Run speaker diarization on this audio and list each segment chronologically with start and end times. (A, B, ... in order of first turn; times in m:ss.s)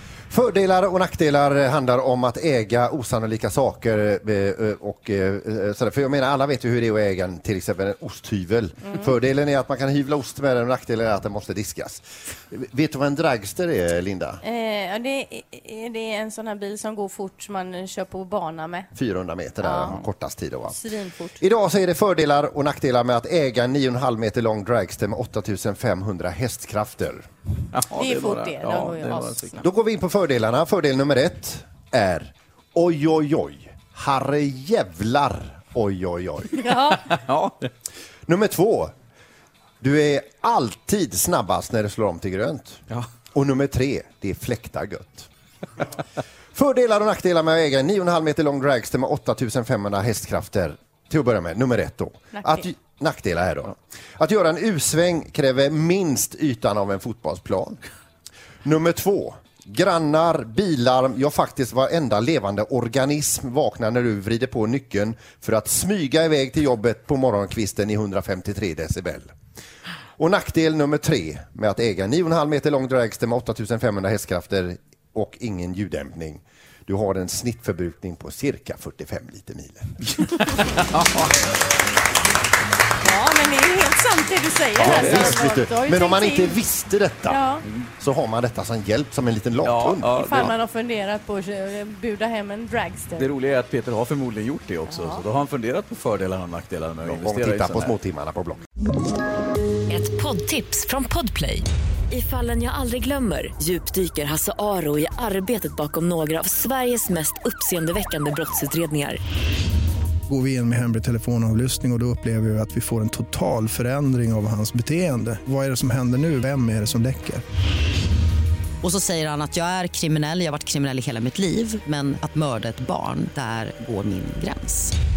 0:00.3-0:14.4 A
0:14.4-0:18.9 B
0:19.0-0:20.8 A
0:19.6-0:20.0 B
0:20.7-0:21.4 B
0:21.4-0:27.2 A
0:27.7-0:29.6 C
0:27.9-0:29.6 B
0:29.6-0:36.6 A
0:36.6-0:37.0 B
0:37.1-0:37.7 C
0:38.3-0:38.9 A
0:39.8-0:42.8 A
0:43.3-0:45.3 A
0:46.5-0:57.8 A
0:52.3-0:52.6 B
0:58.6-1:09.3 A
1:10.2-1:19.9 A
1:23.0-1:26.6 B
1:24.8-1:27.4 A
1:24.8-1:25.4 C
1:27.3-1:27.6 B
1:28.0-1:30.2 A
1:29.6-1:30.5 C
1:30.1-1:33.3 B
1:33.2-1:38.0 C
1:34.9-1:35.2 B
1:37.0-1:38.6 A
1:39.9-1:49.2 D
1:50.3-1:57.4 E
1:58.8-2:04.9 F